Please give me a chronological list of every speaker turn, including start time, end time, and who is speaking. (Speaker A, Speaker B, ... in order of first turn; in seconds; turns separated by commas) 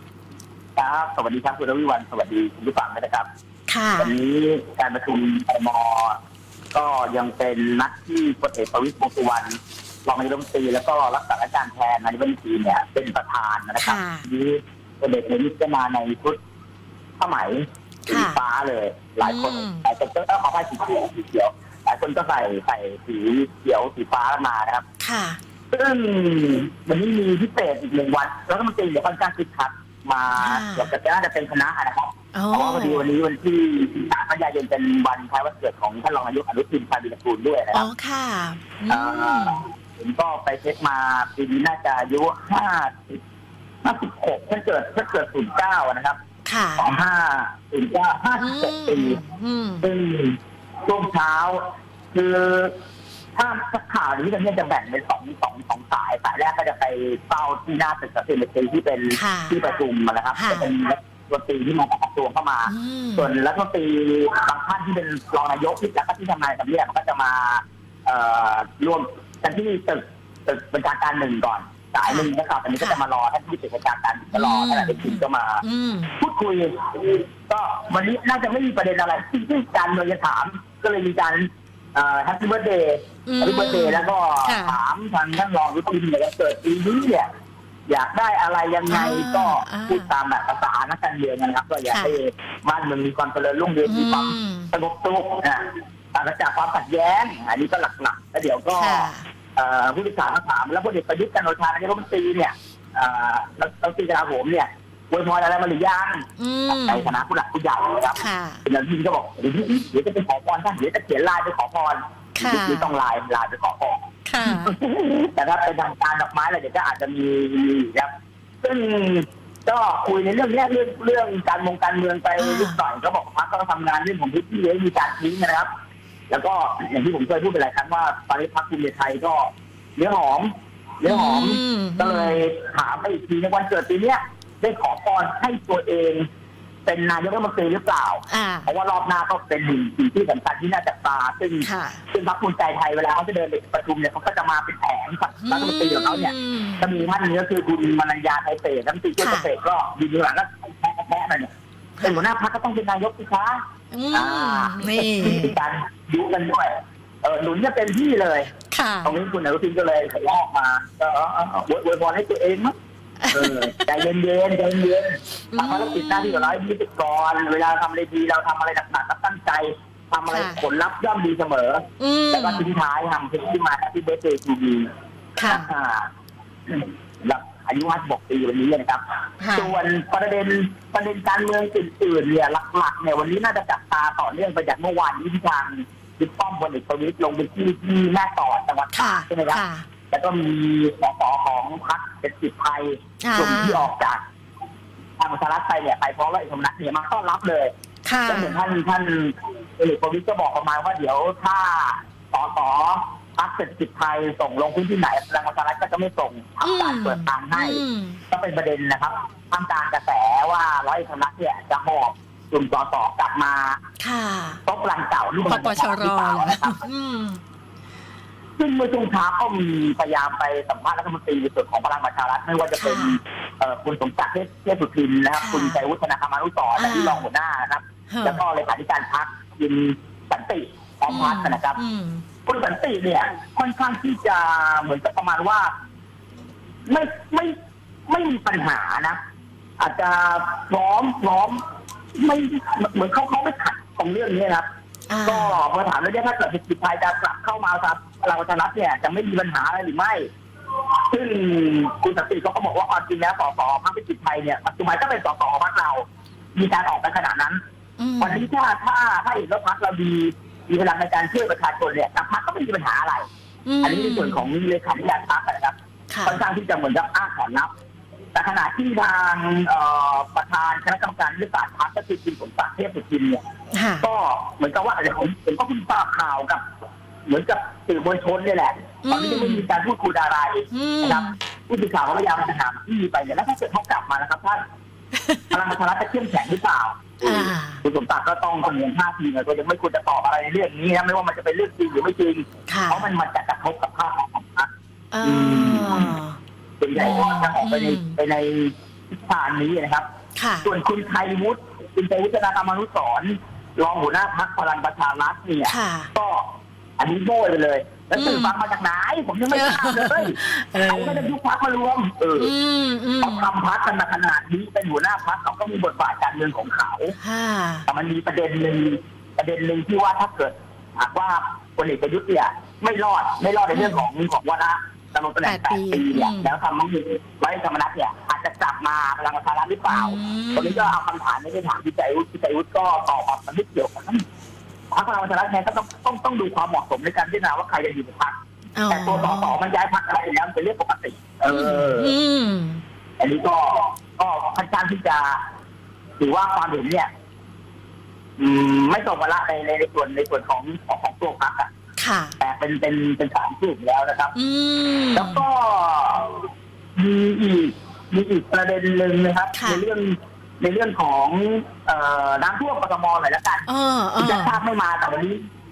Speaker A: 0.8-3.3, Speaker B: 3.7-4.1, Speaker A: 4.0-6.2, Speaker A: 6.7-16.4, Speaker B: 13.8-14.2, Speaker A: 17.2-24.8, Speaker B: 18.1-18.4, Speaker B: 19.2-19.8, Speaker B: 25.0-25.4, Speaker A: 25.7-37.9, Speaker B: 30.4-30.9, Speaker B: 32.3-33.1, Speaker B: 37.7-39.6, Speaker A: 38.9-43.2, Speaker A: 43.8-46.2, Speaker B: 46.4-46.9, Speaker A: 46.8-49.2, Speaker B: 48.4-49.9, Speaker A: 49.8-52.8, Speaker A: 53.4-75.6, Speaker B: 59.1-59.6, Speaker B: 60.3-60.7, Speaker B: 62.7-63.3, Speaker B: 72.0-73.0, Speaker B: 74.3-76.2, Speaker A: 76.2-87.3, Speaker B: 83.3-84.8, Speaker A: 87.9-118.1, Speaker B: 88.9-90.1, Speaker B: 91.9-92.2, Speaker B: 93.8-94.7, Speaker B: 98.7-99.3, Speaker B: 106.4-107.1, Speaker B: 108.2-108.6, Speaker B: 112.3-112.9, Speaker B: 114.2-114.8, Speaker A: 118.6-125.7, Speaker B: 122.4-122.8, Speaker A: 126.3-136.2, Speaker B: 131.1-132.5, Speaker A: 136.8-151.5, Speaker B: 138.3-138.7, Speaker B: 141.6-142.0, Speaker B: 145.4-146.9, Speaker B: 149.2-149.5, Speaker B: 152.0-152.2, Speaker A: 152.0-153.6, Speaker B: 153.9-155.6, Speaker A: 154.1-158.5, Speaker B: 158.7-159.2, Speaker A: 159.0-162.7, Speaker B: 163.2-163.9, Speaker A: 163.3-174.9, Speaker B: 165.5-166.6, Speaker B: 170.3-170.6, Speaker B: 172.0-172.7, Speaker B: 175.4-175.7, Speaker A: 175.4-176.1, Speaker A: 176.7-179.0, Speaker B: 179.4-179.8, Speaker A: 179.5-194.2, Speaker B: 188.9-189.8, Speaker B: 193.2-193.9, Speaker A: 195.2-197.7, Speaker B: 198.0-198.6, Speaker A: 198.3-213.8, Speaker B: 206.6-208.2, Speaker B: 214.0-214.6, Speaker A: 214.7-216.8, Speaker B: 215.5-217.4, Speaker A: 218.6-231.8, Speaker B: 222.8-223.2, Speaker B: 225.3-225.8, Speaker B: 226.8-227.2, Speaker B: 228.1-228.4, Speaker B: 231.1-232.2, Speaker A: 232.4-235.7, Speaker A: 236.9-237.6, Speaker A: 238.1-239.2, Speaker A: 239.8-241.6, Speaker A: 242.1-244.7, Speaker B: 245.1-245.6, Speaker A: 245.2-250.3, Speaker A: 251.1-256.0, Speaker A: 256.6-257.6, Speaker B: 258.0-258.5, Speaker A: 258.2-263.3, Speaker B: 263.6-264.5, Speaker A: 263.8-267.7, Speaker B: 266.1-266.4, Speaker A: 268.3-273.4, Speaker B: 273.7-274.1, Speaker A: 274.0-276.6, Speaker A: 277.3-284.6, Speaker B: 279.0-279.6, Speaker B: 280.7-281.4, Speaker B: 285.1-285.4, Speaker A: 285.5-294.7, Speaker B: 287.2-287.8, Speaker B: 292.7-293.1, Speaker B: 295.1-296.4, Speaker A: 295.2-296.2, Speaker A: 296.8-300.1, Speaker B: 296.9-298.2, Speaker B: 300.4-300.7, Speaker A: 300.6-312.5, Speaker B: 305.6-306.1, Speaker B: 308.1-308.6, Speaker B: 309.5-311.3, Speaker B: 312.4-313.5, Speaker A: 313.2-317.2, Speaker B: 317.2-317.9, Speaker A: 317.9-334.2, Speaker B: 323.7-324.0, Speaker B: 325.4-326.5, Speaker B: 329.9-331.0, Speaker A: 334.9-338.4, Speaker B: 338.8-339.6, Speaker A: 338.9-342.1, Speaker B: 341.5-342.8, Speaker A: 343.2-345.4, Speaker A: 346.2-347.1, Speaker A: 348.4-351.7, Speaker B: 352.0-352.4, Speaker A: 352.4-354.3, Speaker B: 354.3-355.4, Speaker A: 355.1-363.7, Speaker B: 359.5-359.8, Speaker B: 363.7-364.6, Speaker A: 364.2-365.4